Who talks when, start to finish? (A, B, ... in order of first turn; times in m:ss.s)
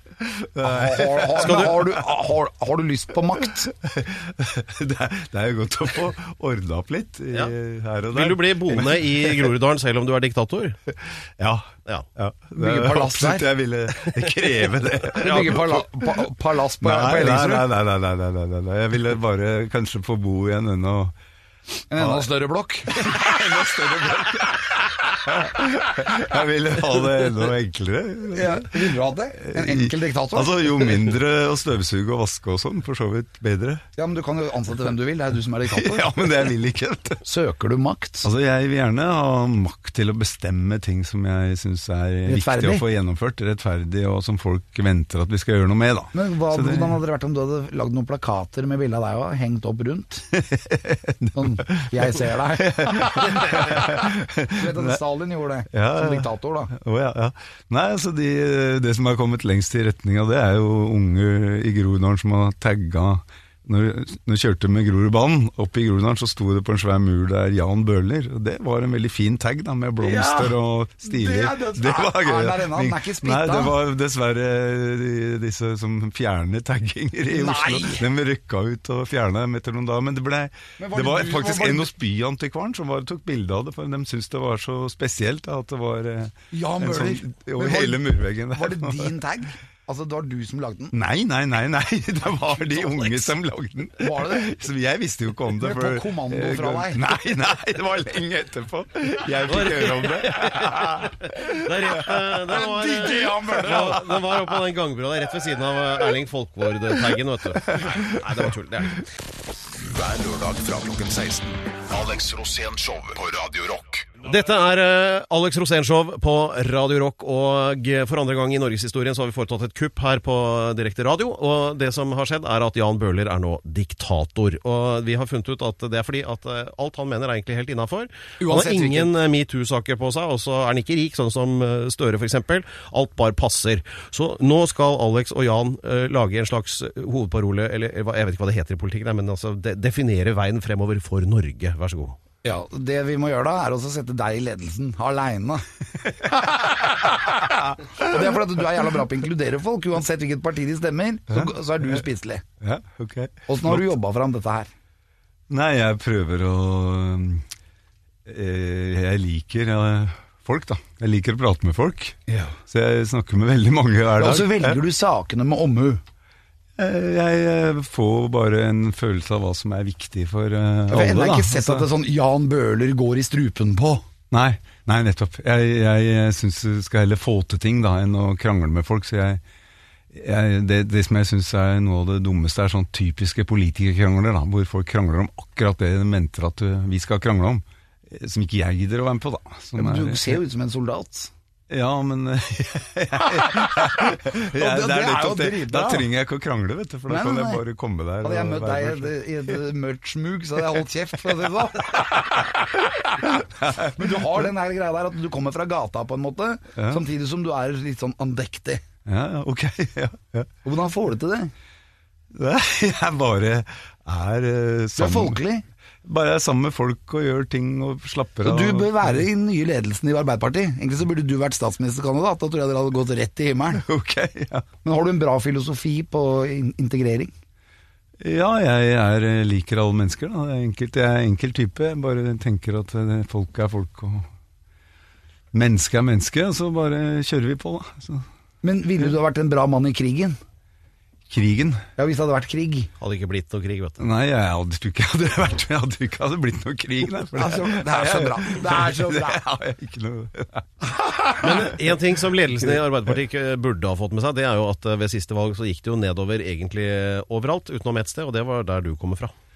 0:00.2-0:01.9 A
0:00.6-0:03.7 B
0:03.7-0:09.5 A
0:08.1-0:10.8 C
0:10.9-0:15.8 A
0:12.6-0:13.5 B
0:15.1-0:17.7 B
0:16.8-0:21.2 A
0:21.9-0:23.3 B
0:22.0-0:22.3 A
0:22.9-0:33.8 A
0:28.3-0:30.9 B
0:34.0-0:36.2 B
0:35.7-0:37.2 A
0:37.2-0:38.3 B
0:38.2-0:47.0 A
0:42.3-0:42.8 B
0:46.1-0:50.3 B
0:50.3-0:55.0 A
0:51.4-0:56.7 B
0:55.7-1:29.2 A
1:10.0-1:13.8 B
1:17.3-1:18.0 B
1:20.8-1:21.9 B
1:26.5-1:31.0 B
1:30.9-1:42.4 A
1:32.7-1:33.3 B
1:34.0-1:34.5 B
1:35.6-1:37.0 B
1:39.4-1:49.1 C
1:42.5-1:44.1 B
1:47.7-1:48.5 A
1:49.7-1:54.2 D
1:54.2-2:22.2 C
2:08.4-2:09.1 B
2:22.4-2:25.7 B
2:26.2-2:28.8 A
2:26.3-2:32.4 B
2:31.3-2:32.0 A
2:32.6-2:33.9 A
2:33.5-2:34.7 B
2:35.5-2:37.5 A
2:38.3-2:44.8 A
2:42.3-2:42.6 B
2:44.2-2:46.0 B
2:46.8-2:51.9 A
2:50.9-2:54.1 B
2:54.3-2:59.4 A
3:00.1-3:10.4 A
3:09.8-3:11.3 B
3:11.7-3:19.2 A
3:13.4-3:16.1 B
3:17.1-3:17.6 B
3:18.2-3:28.8 B
3:23.4-3:24.5 A
3:26.8-3:27.0 A
3:29.1-3:30.5 A
3:30.6-3:31.5 B
3:32.3-3:35.4 A
3:35.0-3:35.6 B
3:36.0-3:39.1 A
3:38.4-3:43.8 B
3:43.7-3:44.7 A
3:44.8-3:47.3 B
3:48.2-3:54.3 A
3:55.5-3:58.3 A
3:58.6-4:00.4 B
4:01.3-4:01.9 A
4:02.0-4:02.9 B
4:03.0-4:04.0 C
4:04.0-4:10.7 A
4:07.4-4:09.4 B
4:10.9-4:11.5 B
4:11.3-4:19.3 C
4:11.4-4:11.7 A